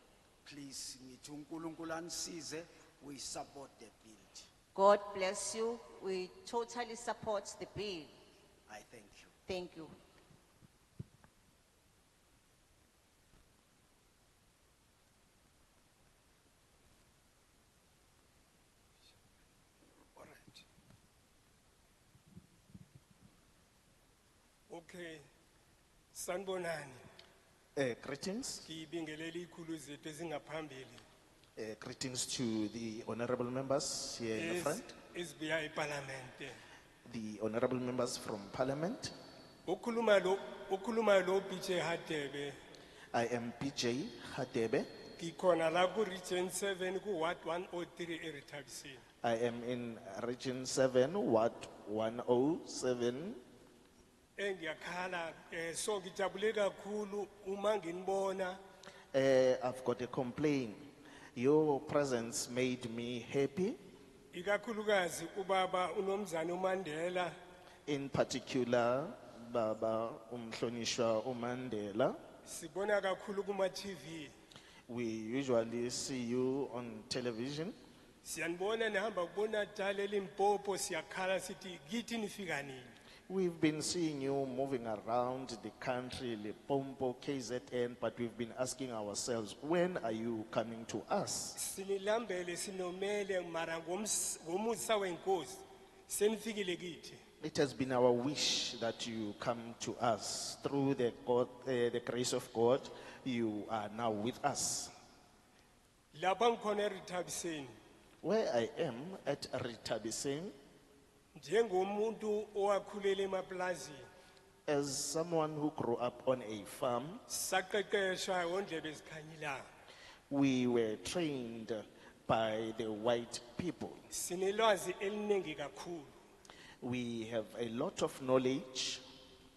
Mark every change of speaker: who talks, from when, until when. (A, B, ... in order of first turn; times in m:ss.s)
0:00.4-0:04.5 A
0:04.7-0:08.1 B
0:08.7-0:09.3 A
0:09.5-0:09.9 B
0:20.2-0:20.6 C
0:24.7-0:25.2 C
0:26.1-0:27.0 C
0:27.8-0:28.6 D
0:28.6-0:31.0 C
0:31.6-0:34.8 D
0:34.3-0:36.6 C
0:37.0-0:39.1 D
0:39.6-0:42.6 C
0:43.1-0:44.9 D
0:45.2-0:49.0 C
0:49.2-0:53.4 D
0:54.4-0:58.6 C
0:59.1-1:00.8 D
1:01.4-1:03.8 D
1:04.3-1:07.4 C
1:07.9-1:12.2 D
1:12.4-1:14.3 C
1:14.9-1:17.7 D
1:18.2-1:22.9 C
1:23.3-1:31.6 D
1:31.6-1:37.2 C
1:37.4-1:44.9 D
1:46.1-1:47.7 C
1:48.2-1:50.5 D
1:51.3-1:54.0 C
1:54.7-1:57.2 D
1:57.3-1:59.6 C
2:00.3-2:04.0 D
2:04.1-2:06.1 C
2:06.8-2:09.0 D